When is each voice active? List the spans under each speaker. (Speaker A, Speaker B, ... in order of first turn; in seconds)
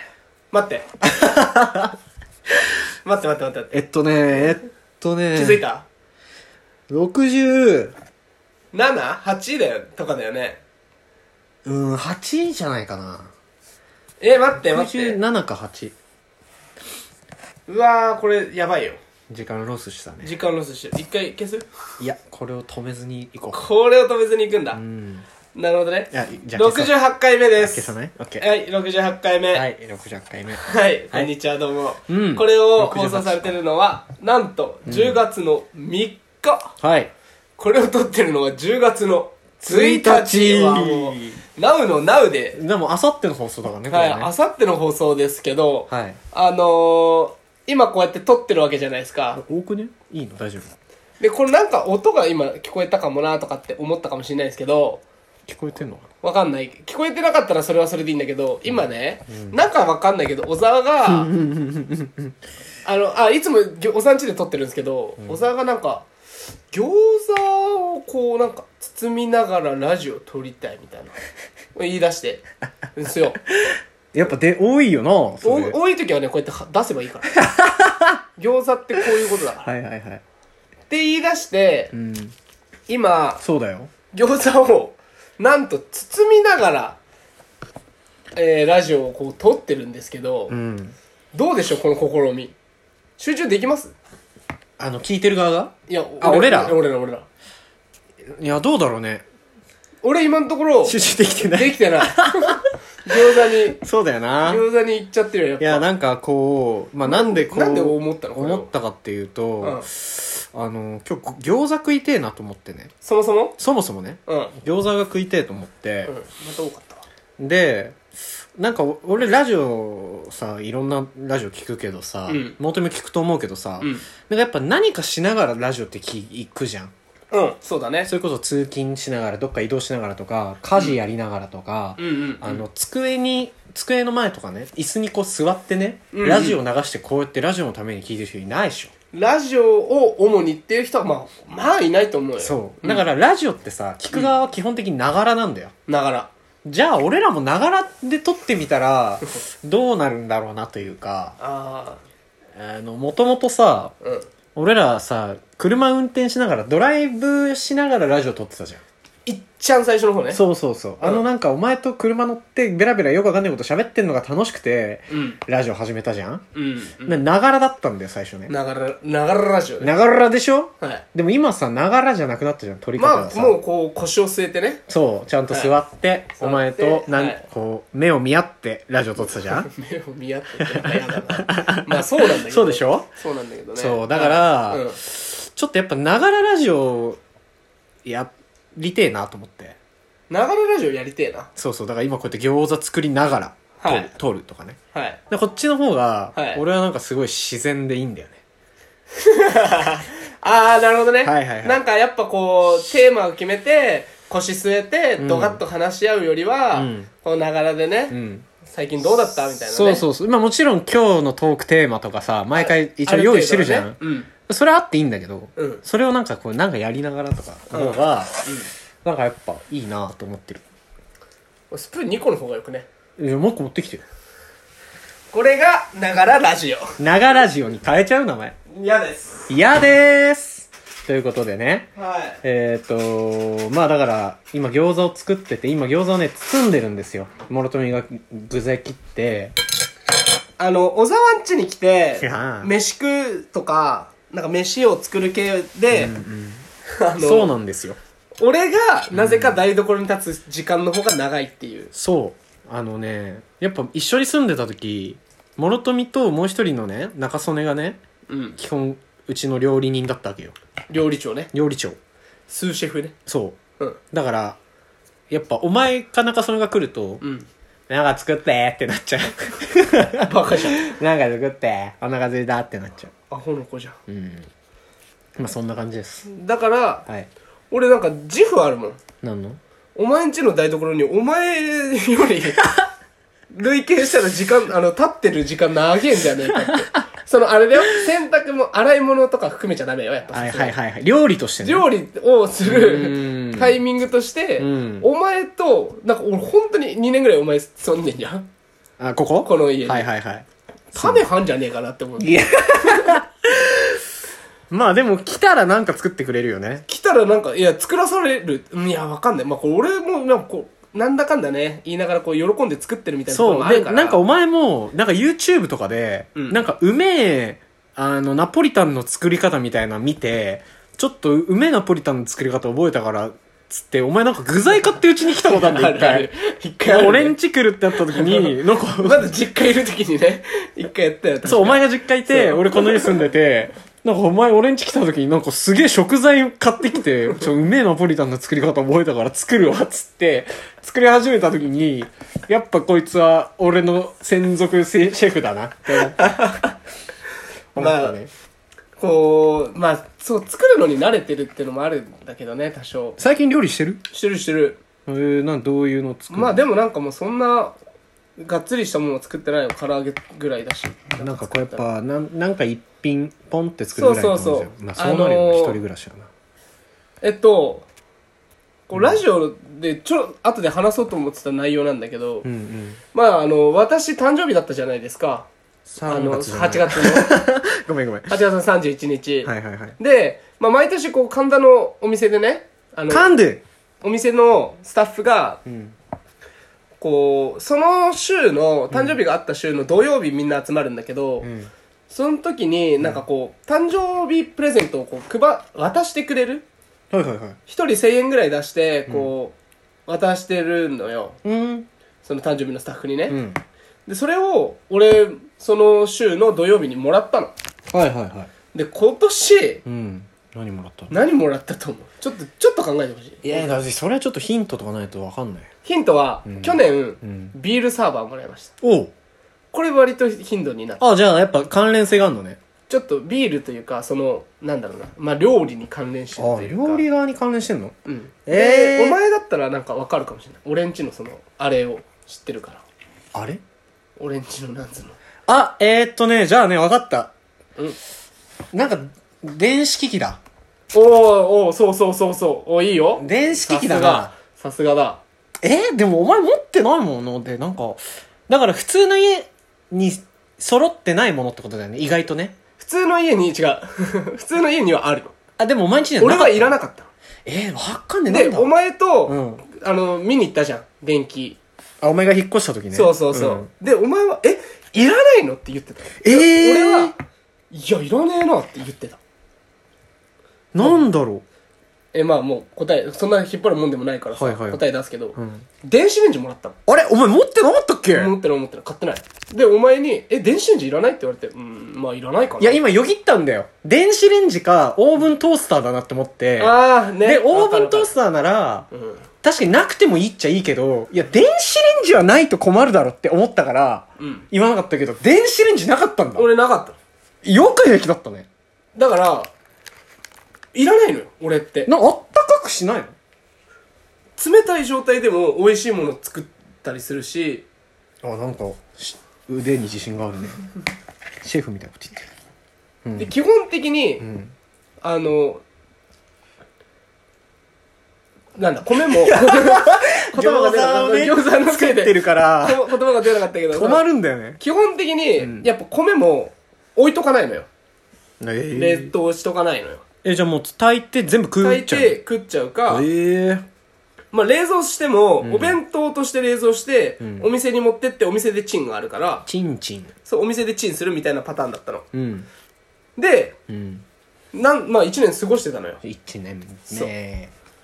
Speaker A: 0.5-0.9, 3.0-3.8, 5.3-5.9, 8.7-10.6, 14.2-15.2, 17.7-19.0, 20.2-21.7, 23.5-24.8, 25.5-29.6, 30.6-36.8, 37.6-42.6, 43.9-49.4, 51.2-55.0, 56.2-61.3, 62.8-66.1, 66.7-71.2, 71.8-73.4, 75.4-77.4, 78.4-79.7, 80.9-81.9, 82.9-83.4, 84.1-87.0, 88.4-90.5, 91.3-92.5, 93.2-93.9, 95.9-97.3, 100.0-103.8, 104.5-105.9, 107.0-108.7, 109.6-109.9, 113.0-113.6, 114.3-114.5, 116.1-117.1, 122.3-122.6, 123.8-124.0, 127.3-128.1, 132.0-132.6, 136.1-136.6, 139.1-143.0, 145.9-146.3, 151.4-152.0, 154.0-154.3, 159.2-160.4, 165.1-165.4, 166.5-167.2, 168.5-169.9, 173.0-174.8, 175.5-175.7, 176.4-177.4, 179.6-185.0, 190.3-191.5, 193.8-194.1, 194.9-195.2, 196.3-196.6, 199.2-210.0, 212.5-214.3, 215.6-215.8, 217.7-218.7, 221.7-222.9, 225.3-226.9, 228.7-229.5, 231.9-232.4, 240.6-246.1, 247.0-247.5, 248.4-251.9, 258.3-258.6, 260.9-261.5, 262.5-263.2, 267.2-267.5, 270.2-270.9, 273.3-274.0, 276.2-277.1, 277.7-279.0, 279.9-282.8, 283.5-290.8, 291.6-298.5, 299.4-300.1, 300.9-303.2, 306.9-314.2, 316.4-316.6, 325.3-327.4, 327.9-333.2, 346.2-346.8, 347.8-348.2, 349.0-353.2, 354.1-354.8, 356.3-357.8, 358.4-361.9, 364.0-365.8, 367.2-367.9, 368.9-372.5, 373.1-375.5, 376.1-377.4, 378.3-383.3, 384.0-385.6, 387.0-391.5, 392.1-396.6, 397.7-399.6, 400.1-401.4, 402.2-403.4, 404.1-407.5, 408.7-409.8, 411.1-413.8, 415.9-418.7, 419.7-421.0, 422.9-427.1, 428.1-432.8, 434.2-435.2, 440.9-445.2, 452.8-455.3, 456.2-457.1, 458.3-461.6, 462.9-467.1, 467.7-469.2, 470.8-471.0, 472.1-476.8, 478.1-482.8, 486.6-488.1, 488.9-489.2, 494.2-494.4, 496.4-497.0, 499.0-499.5, 500.7-501.9, 504.4-507.6, 513.2-514.2, 515.0-515.6, 518.6-524.0, 524.6-527.7, 528.7-530.0, 531.6-533.1, 534.3-539.5, 540.2-542.1, 543.2-543.6, 544.5-546.0
Speaker B: 1.0-1.9, 3.7-5.6, 6.9-7.9, 11.6-13.3, 14.6-15.9, 19.3-20.3, 22.0-23.6, 24.7-25.2, 26.1-27.0, 27.6-28.5, 29.5-31.3, 32.1-33.5, 34.9-35.2, 36.8-37.1, 39.7-41.4, 42.5-44.3, 45.9-46.2, 49.3-50.7, 55.5-56.1, 58.7-59.6, 61.1-62.3, 65.2-65.5, 73.7-75.8, 77.4-78.2, 79.6-80.2, 81.9-82.3, 83.4-83.9, 90.5-91.0, 94.8-96.8, 98.3-99.2, 100.8-102.7, 103.5-104.6, 105.6-112.9, 113.6-116.1, 117.4-118.0, 118.6-126.9, 128.1-138.9, 142.4-145.7, 146.6-151.4, 152.5-153.9, 154.6-158.8, 160.3-166.4, 167.0-168.5, 169.8-173.6, 174.9-179.7, 180.7-183.1, 183.8-187.2, 188.0-189.8, 191.6-194.8, 195.3-198.4, 201.2-201.8, 205.2-205.6, 206.7-207.1, 208.1-208.4, 209.4-218.4, 219.0-220.6, 223.2-224.0, 227.0-228.6, 229.5-231.9, 232.4-239.5, 242.2-242.7, 245.9-246.7, 247.2-248.0, 249.1-249.6, 251.9-258.0, 258.6-260.6, 261.5-262.0, 263.2-263.6, 264.1-264.6, 265.3-267.2, 267.9-273.1, 274.1-274.5, 275.4-276.3, 279.2-279.6, 290.3-291.9, 292.6-293.8, 294.6-295.1, 299.0-301.2, 302.2-304.0, 304.7-306.9, 313.3-326.3, 326.9-329.3, 331.4-346.5, 347.8-348.3, 353.2-354.0, 355.1-356.6, 361.2-366.3, 368.9-369.2, 372.4-373.0, 375.9-378.4, 379.4-380.0, 383.1-383.6, 385.7-386.0, 388.9-389.2, 391.4-391.7, 397.1-397.6, 401.4-401.9, 403.3-403.6, 407.9-408.5, 409.9-411.1, 413.4-415.7, 416.5-417.6, 418.8-419.1, 421.0-422.6, 426.4-427.9, 428.5-429.2, 433.3-433.6, 435.5-437.3, 438.7-440.4, 443.2-444.3, 445.6-452.6, 455.6-456.8, 457.4-458.7, 459.2-459.6, 462.0-463.7, 466.2-467.1, 470.7-471.4, 474.3-474.8, 475.4-475.7, 476.9-478.3, 482.6-488.9, 489.4-496.5, 497.4-498.5, 501.9-503.1, 508.2-510.7, 511.4-512.2, 513.0-513.3, 514.2-514.5, 519.1-523.0, 523.7-524.6, 525.4-525.7, 528.4-529.1, 530.2-532.2, 532.9-533.6, 535.4-535.8, 537.2-537.5, 539.5-540.1, 542.1-542.5, 543.7-544.0, 546.0-547.5